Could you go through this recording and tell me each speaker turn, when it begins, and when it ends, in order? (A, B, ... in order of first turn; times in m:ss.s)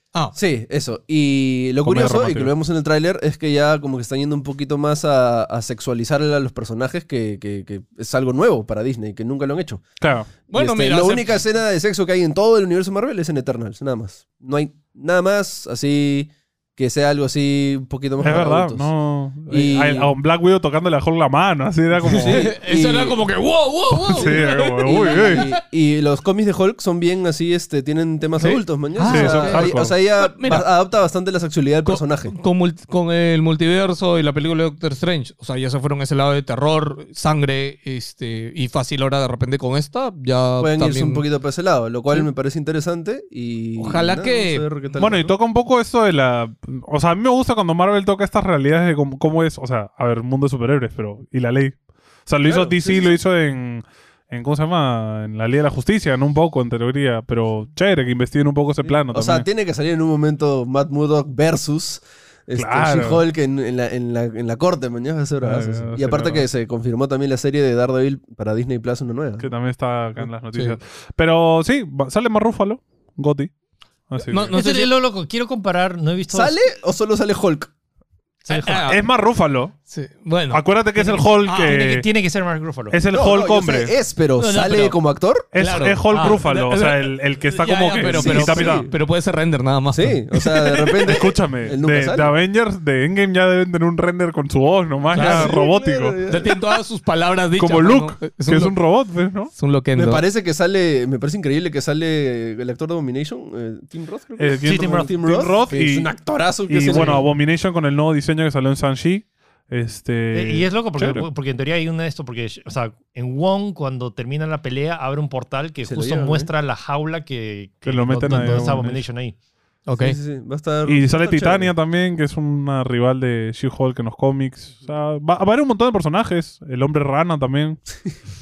0:00.3-0:09.8 A
0:01.8-0:02.5 B
0:10.0-0:10.3 B
0:10.5-0:18.9 A
0:10.5-0:11.4 C
0:18.2-0:22.5 B
0:19.5-0:20.1 A
0:22.0-0:25.6 C
0:22.0-0:23.2 A
0:24.0-0:25.4 B
0:24.2-0:32.4 A
0:28.4-0:30.7 C
0:29.0-0:29.9 B
0:31.8-0:41.2 C
0:40.6-0:45.3 A
0:43.8-0:44.6 C
0:45.0-0:59.4 B
0:52.4-0:53.2 A
0:59.1-1:09.5 A
1:02.5-1:03.2 B
1:05.4-1:06.4 B
1:09.4-1:13.5 B
1:14.1-1:14.6 B
1:14.2-1:14.9 C
1:14.5-1:16.6 D
1:16.3-1:17.7 A
1:18.4-1:19.0 D
1:18.5-1:19.0 C
1:18.8-1:19.7 B
1:19.9-1:20.6 C
1:20.5-1:22.1 B
1:21.0-1:23.0 D
1:21.4-1:21.8 C
1:22.9-1:23.9 B
1:23.1-1:25.4 A
1:24.4-1:25.0 C
1:25.5-1:28.9 B
1:25.5-1:31.1 C
1:26.1-1:26.4 D
1:28.0-1:28.9 A
1:29.9-1:32.3 A
1:31.0-1:36.2 B
1:35.1-1:36.6 A
1:35.1-1:35.5 C
1:36.3-1:38.7 C
1:37.6-1:39.5 B
1:39.5-1:40.2 C
1:39.9-1:47.2 A
1:44.4-1:46.1 B
1:44.6-1:45.1 D
1:46.7-1:51.3 B
1:46.9-1:47.2 D
1:50.3-1:59.3 D
1:55.8-1:56.5 A
1:57.8-1:59.0 B
1:59.9-2:00.2 C
2:00.0-2:01.7 A
2:00.8-2:07.8 B